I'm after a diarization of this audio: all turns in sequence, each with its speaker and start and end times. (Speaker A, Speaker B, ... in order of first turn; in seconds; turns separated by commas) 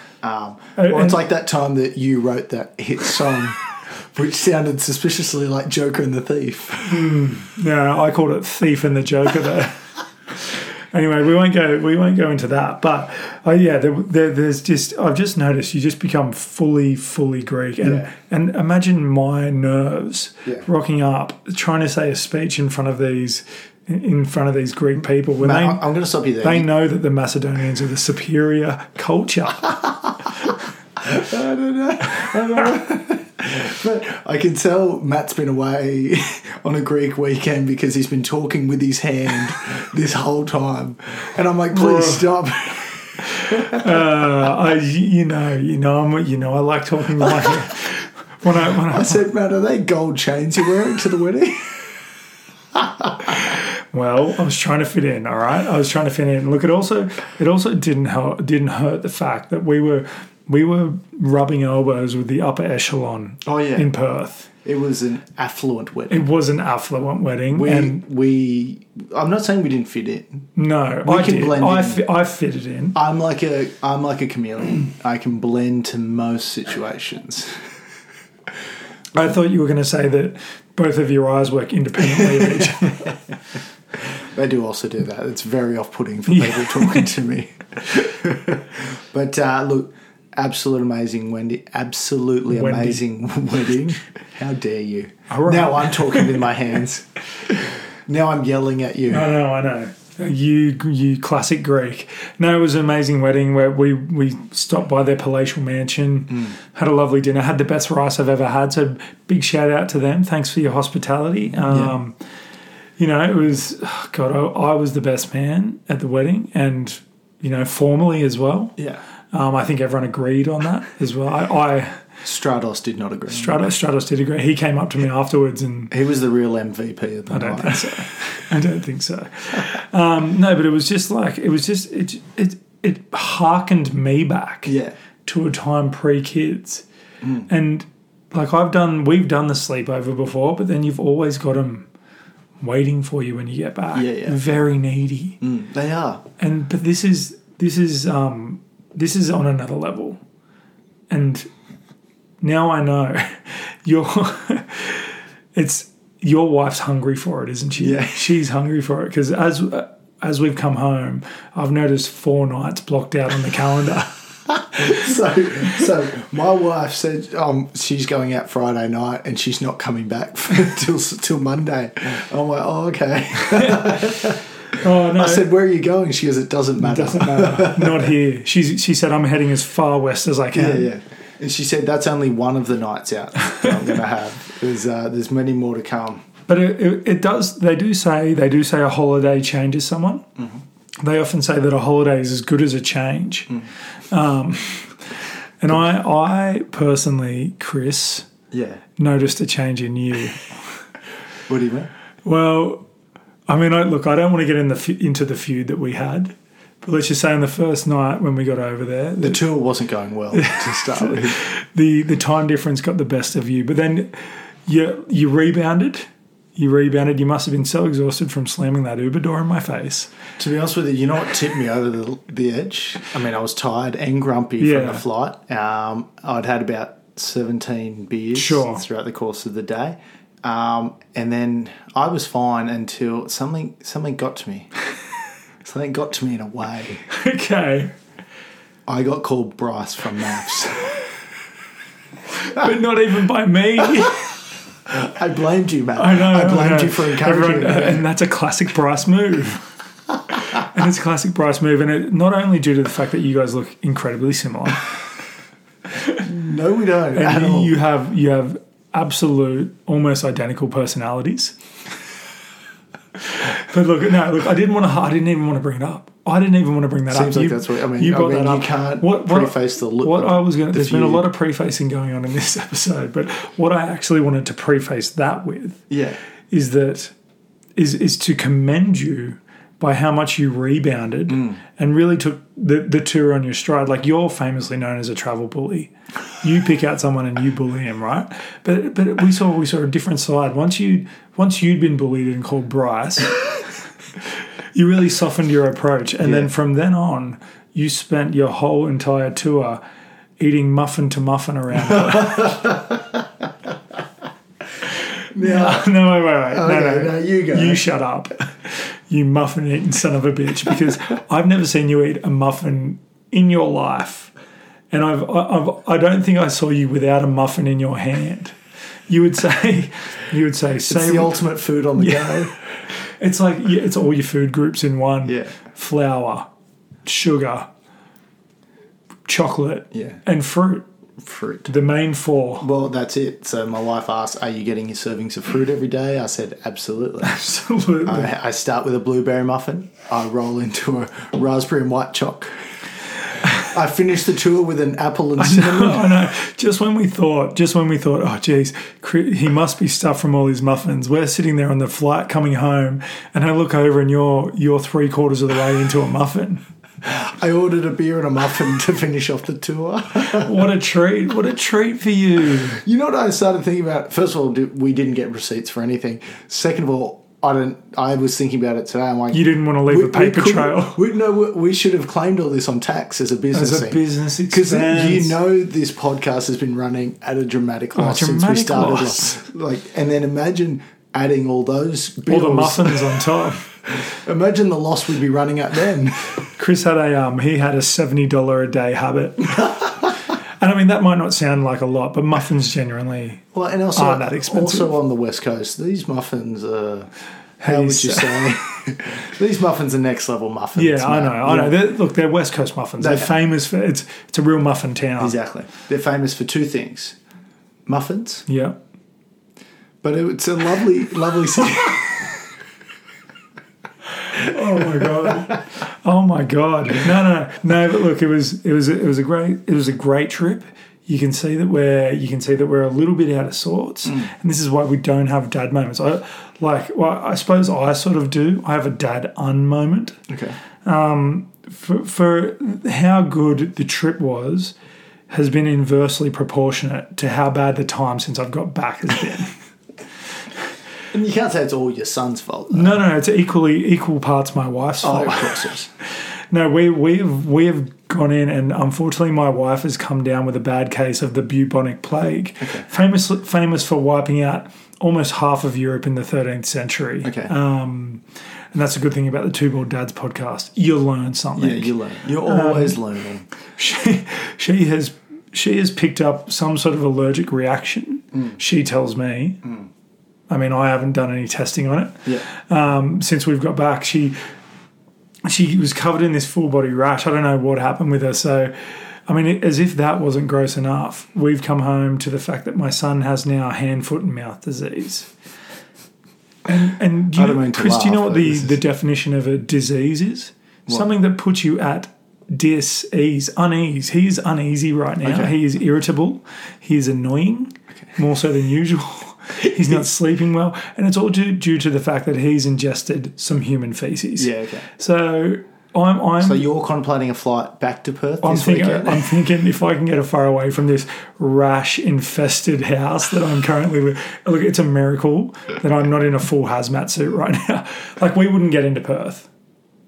Speaker A: 0.2-7.2, Speaker B: 0.8-1.2, Speaker B: 6.9-25.8, Speaker A: 17.8-18.1, Speaker A: 25.4-26.7, Speaker B: 26.4-30.3, Speaker A: 31.0-44.1, Speaker B: 41.7-42.3, Speaker B: 43.2-49.2, Speaker A: 47.2-47.6, Speaker A: 48.6-51.9, Speaker A: 52.7-53.4, Speaker B: 53.3-64.5, Speaker A: 63.5-63.9, Speaker A: 64.7-66.3, Speaker B: 66.1-68.0, Speaker A: 67.5-70.5, Speaker B: 70.6-73.0, Speaker A: 71.0-72.1, Speaker A: 73.0-77.6, Speaker B: 79.2-83.2, Speaker A: 82.2-83.1, Speaker A: 84.0-99.3, Speaker B: 86.3-87.1, Speaker B: 92.5-93.0, Speaker B: 95.3-96.4, Speaker B: 99.1-112.2, Speaker A: 111.7-112.0, Speaker B: 113.0-118.8, Speaker A: 118.8-119.0, Speaker B: 119.3-122.0, Speaker A: 122.2-123.7, Speaker B: 123.3-125.9, Speaker A: 125.9-128.0, Speaker B: 127.3-134.7, Speaker A: 134.7-134.9, Speaker B: 135.3-136.8, Speaker B: 137.5-141.9, Speaker B: 142.6-145.4, Speaker A: 143.9-144.4, Speaker A: 145.4-146.2, Speaker B: 146.4-150.2, Speaker B: 151.1-151.5, Speaker B: 152.4-164.2, Speaker A: 157.8-158.3, Speaker A: 164.8-174.4, Speaker B: 173.5-174.1, Speaker B: 174.7-175.5, Speaker A: 175.1-178.2, Speaker B: 176.8-180.9, Speaker A: 180.5-186.3, Speaker B: 186.5-190.3, Speaker B: 191.0-193.6, Speaker B: 194.1-195.0, Speaker B: 195.6-198.3, Speaker A: 198.5-198.8, Speaker B: 199.0-200.6, Speaker A: 201.5-201.9, Speaker B: 202.2-202.8, Speaker B: 203.5-209.4, Speaker A: 209.2-211.4, Speaker B: 210.3-220.1, Speaker A: 220.4-234.7, Speaker B: 224.6-225.1, Speaker B: 228.3-228.8, Speaker A: 235.6-237.1, Speaker B: 237.1-237.9, Speaker A: 238.9-241.1, Speaker B: 242.4-244.4, Speaker A: 244.9-248.1, Speaker B: 246.0-249.7, Speaker B: 250.4-254.9, Speaker A: 256.2-257.8, Speaker B: 257.1-261.6, Speaker B: 263.2-275.9, Speaker A: 267.1-271.3, Speaker A: 275.9-276.2, Speaker B: 276.5-277.1, Speaker B: 277.8-293.6, Speaker A: 281.3-281.6, Speaker B: 294.7-299.8, Speaker A: 296.2-296.5, Speaker B: 300.4-302.6, Speaker A: 301.9-303.3, Speaker A: 305.3-307.8, Speaker B: 305.4-314.3, Speaker B: 314.9-318.6, Speaker B: 319.1-321.4, Speaker A: 320.9-322.6, Speaker B: 322.0-326.5, Speaker A: 325.2-325.5, Speaker B: 327.1-327.7, Speaker B: 329.3-330.9, Speaker A: 329.9-330.2, Speaker A: 331.2-331.7, Speaker B: 331.7-332.7, Speaker A: 332.6-337.4, Speaker B: 337.2-338.3, Speaker A: 338.1-342.6, Speaker A: 343.5-346.2, Speaker B: 345.4-356.6, Speaker A: 357.0-360.6, Speaker B: 360.2-362.8, Speaker A: 362.6-386.4, Speaker B: 369.3-371.0, Speaker B: 373.5-375.4, Speaker B: 378.0-379.4, Speaker B: 382.3-383.7, Speaker B: 386.6-390.1, Speaker B: 390.6-394.9, Speaker A: 393.5-397.1, Speaker B: 397.6-398.5, Speaker A: 397.6-401.8, Speaker B: 400.8-405.4, Speaker A: 403.0-403.4, Speaker A: 405.2-407.2, Speaker A: 407.9-408.4, Speaker B: 408.5-408.8, Speaker A: 410.0-412.4, Speaker B: 414.2-430.2, Speaker A: 415.1-415.4, Speaker A: 430.3-430.6, Speaker B: 430.9-434.8, Speaker B: 435.3-439.5, Speaker A: 441.1-443.0, Speaker B: 442.7-445.6, Speaker A: 445.0-445.9, Speaker B: 446.5-458.2, Speaker A: 457.2-457.5, Speaker B: 458.7-463.0, Speaker A: 461.6-463.5, Speaker B: 463.8-469.7, Speaker B: 470.5-474.4, Speaker B: 475.4-485.3, Speaker B: 486.7-506.7, Speaker A: 487.3-488.8, Speaker A: 495.2-495.6, Speaker A: 504.4-504.9, Speaker A: 506.4-509.3, Speaker B: 508.4-519.5